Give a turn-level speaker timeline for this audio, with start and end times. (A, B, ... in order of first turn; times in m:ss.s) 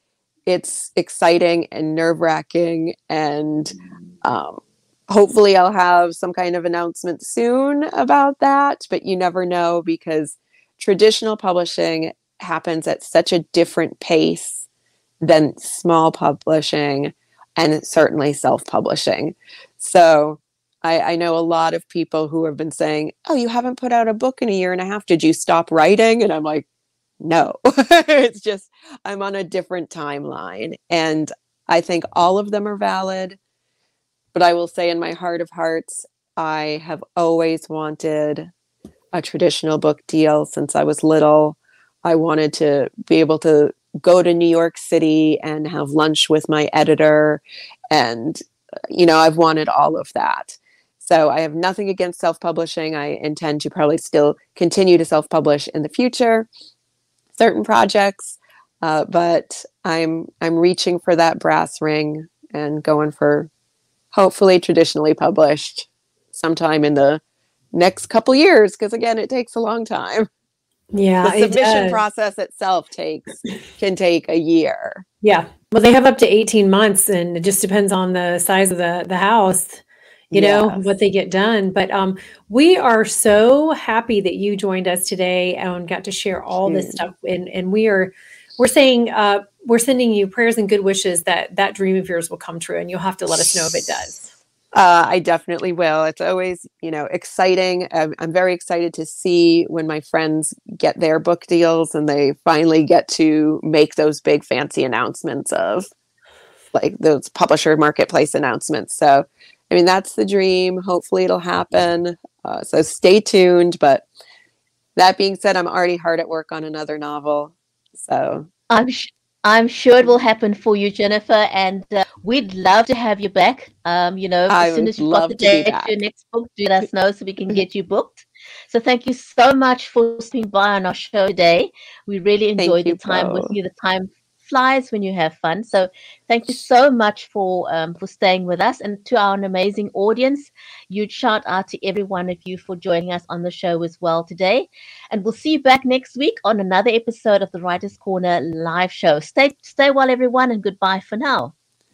0:00.5-0:14.7 A
0:15.2-0:26.7 A
0:27.2-0:33.4 A
0:34.3-0:38.5 A
0:39.1-0:56.5 A
0:57.3-1:03.5 A
1:04.1-1:07.2 A
1:07.7-1:10.3 A
1:10.9-1:12.0 B
1:11.2-1:15.0 A
1:15.2-1:34.3 B
1:20.3-1:20.9 A
1:26.7-1:27.0 A
1:34.7-1:45.9 A
1:46.7-1:54.0 A
1:55.0-1:58.5 A
1:58.7-2:31.5 C
2:04.5-2:05.9 A
2:12.6-2:13.6 A